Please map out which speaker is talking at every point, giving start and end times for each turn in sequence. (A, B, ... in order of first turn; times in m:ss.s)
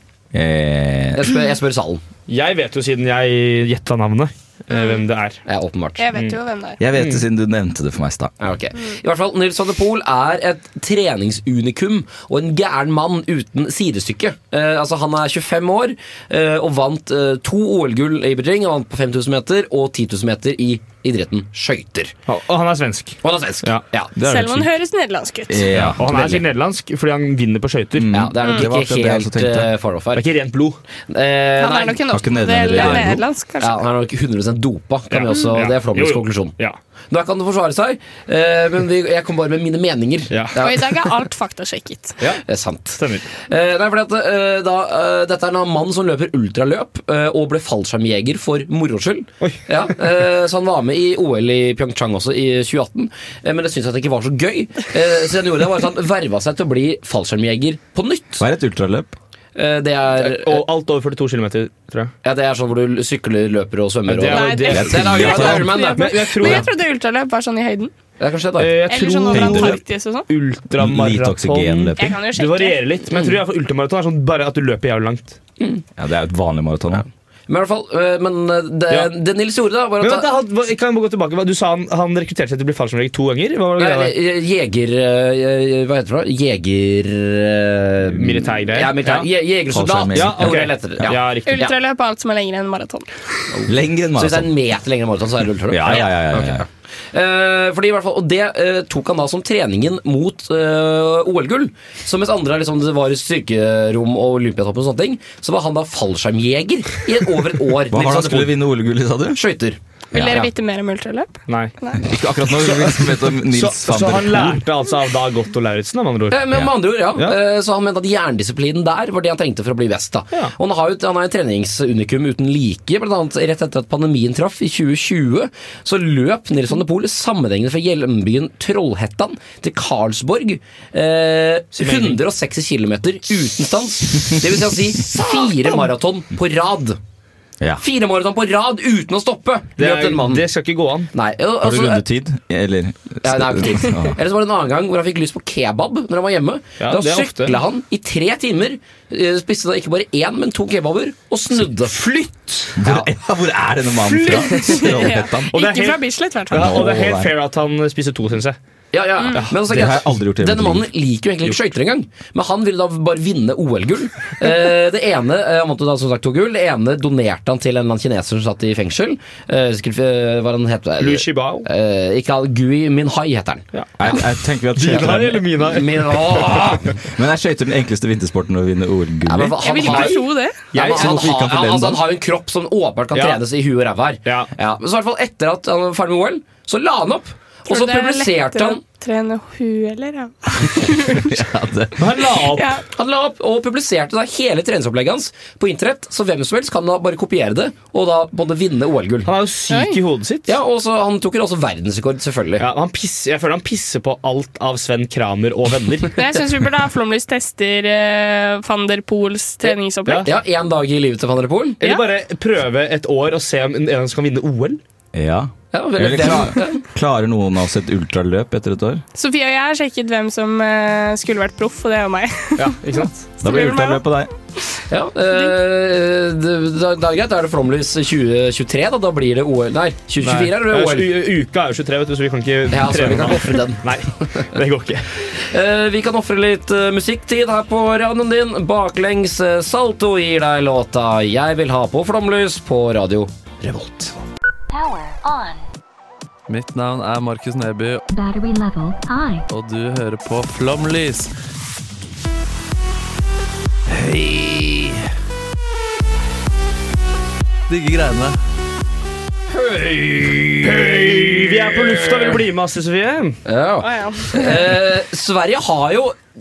0:00.3-0:01.3 A
0:01.2-0:02.0 B
0:02.3-0:05.4 C
0:04.7-0:05.1 D
0:05.5-0:06.0 B
0:06.0-0:06.8 D
0:06.8-0:08.3 A
0:07.0-0:07.2 C
0:08.4-0:22.2 B
0:22.3-0:24.7 C
0:23.2-0:24.1 B
0:24.2-0:25.7 D
0:25.5-0:26.4 A
0:25.8-0:28.1 C
0:28.0-0:29.7 A
0:28.1-0:30.2 B
0:30.1-0:30.8 C
0:31.1-0:32.0 B
0:31.6-0:33.8 D
0:32.1-0:33.2 A
0:32.7-0:36.5 B
0:35.1-0:36.8 C
0:37.1-0:40.9 B
0:40.3-0:40.6 C
0:40.6-0:42.2 D
0:42.4-0:58.4 B
0:43.0-0:43.3 C
0:58.4-0:59.2 A
0:59.6-1:00.6 B
1:00.2-1:02.1 C
1:02.2-1:06.3 B
1:04.1-1:06.7 C
1:04.2-1:07.9 D
1:04.7-1:05.7 A
1:08.2-1:08.7 B
1:08.6-1:15.4 C
1:08.9-1:10.3 D
1:09.3-1:09.8 A
1:10.8-1:12.2 A
1:12.0-1:12.8 D
1:13.1-1:13.4 B
1:16.0-1:17.1 A
1:17.5-1:20.3 B
1:20.0-1:24.1 C
1:23.8-1:31.7 B
1:28.1-1:29.3 C
1:29.7-1:31.2 A
1:30.1-1:31.7 C
1:31.5-1:33.6 D
1:33.5-1:48.5 B
1:33.7-1:34.5 A
1:35.7-1:36.6 A
1:47.9-1:49.4 A
1:49.3-1:50.5 B
1:50.1-1:52.1 D
1:52.0-1:54.6 A
1:52.6-1:56.4 C
1:56.3-2:17.0 B
2:11.8-2:12.2 C
2:15.1-2:15.9 C
2:17.8-2:20.4 B
2:19.8-2:21.1 C
2:21.1-2:22.0 B
2:21.6-2:24.2 A
2:23.2-2:32.0 B
2:26.8-2:27.6 C
2:31.9-2:32.7 C
2:32.8-2:35.6 A
2:32.8-2:33.1 B
2:34.0-2:38.6 C
2:34.3-2:36.9 D
2:36.5-2:37.3 A
2:38.9-2:53.6 B
2:39.3-2:39.9 C
2:39.7-2:40.9 A
2:51.0-2:51.7 C
2:54.0-2:55.5 A
2:54.8-2:56.6 C
2:55.6-2:56.8 B
2:57.0-2:59.9 A
2:59.3-3:00.2 B
2:59.6-3:00.6 D
2:59.8-3:00.2 C
3:00.7-3:08.8 B
3:00.7-3:01.3 C
3:00.7-3:02.1 A
3:03.1-3:03.4 C
3:04.2-3:04.5 C
3:07.7-3:11.4 D
3:11.2-3:12.0 A
3:12.0-3:12.8 C
3:12.5-3:12.8 D
3:12.9-3:19.3 B
3:19.2-3:20.5 C
3:19.7-3:20.0 D
3:20.5-3:22.6 B
3:22.6-3:26.2 C
3:26.2-3:30.3 D
3:29.6-3:30.3 C
3:30.2-3:31.8 B
3:31.8-3:34.8 C
3:35.1-3:39.0 A
3:35.7-3:36.8 B
3:39.2-3:44.1 D
3:42.6-3:43.2 C
3:43.4-3:44.3 A
3:44.9-3:51.1 B
3:50.2-3:55.1 C
3:52.7-3:53.9 B
3:55.3-4:04.2 B
4:04.7-4:05.6 E
4:06.5-4:08.0 F
4:08.1-4:09.4 E
4:09.5-4:11.3 F
4:14.1-4:14.7 B
4:17.7-4:18.4 F
4:19.5-4:21.5 B
4:20.6-4:23.4 C
4:23.4-4:26.2 B
4:23.8-4:24.7 D